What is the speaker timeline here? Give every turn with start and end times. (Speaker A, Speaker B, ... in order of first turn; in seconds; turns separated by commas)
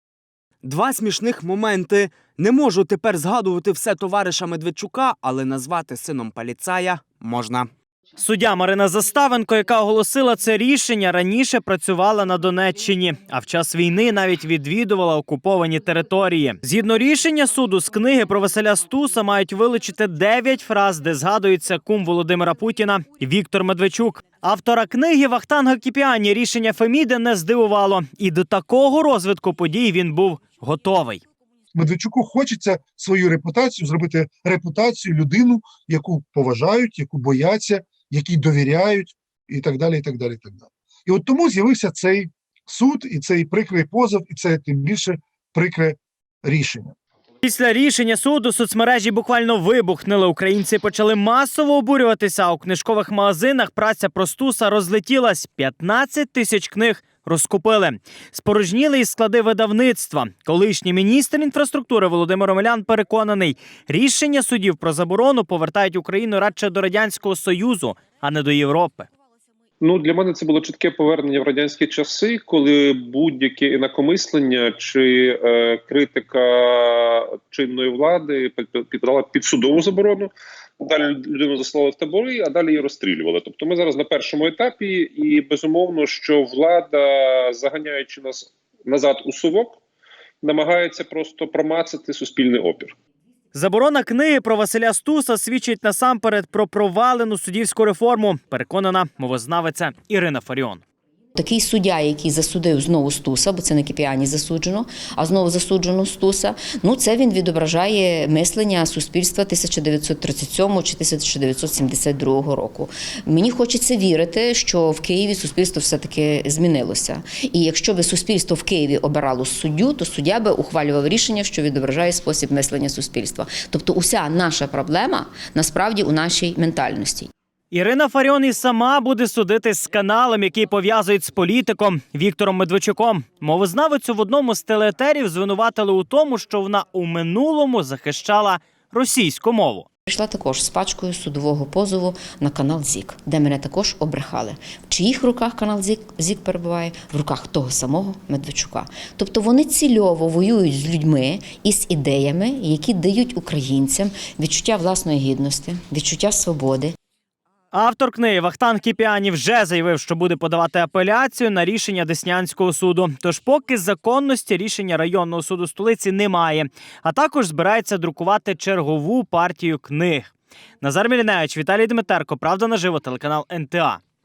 Speaker A: 0.6-7.7, Speaker B: 8.2-31.2, Speaker C: 31.7-47.0, Speaker B: 47.4-69.1, Speaker D: 69.8-89.8, Speaker D: 90.4-92.9, Speaker B: 93.5-100.8, Speaker E: 101.3-127.3, Speaker B: 127.7-139.9, Speaker E: 140.1-156.9, Speaker B: 157.7-174.0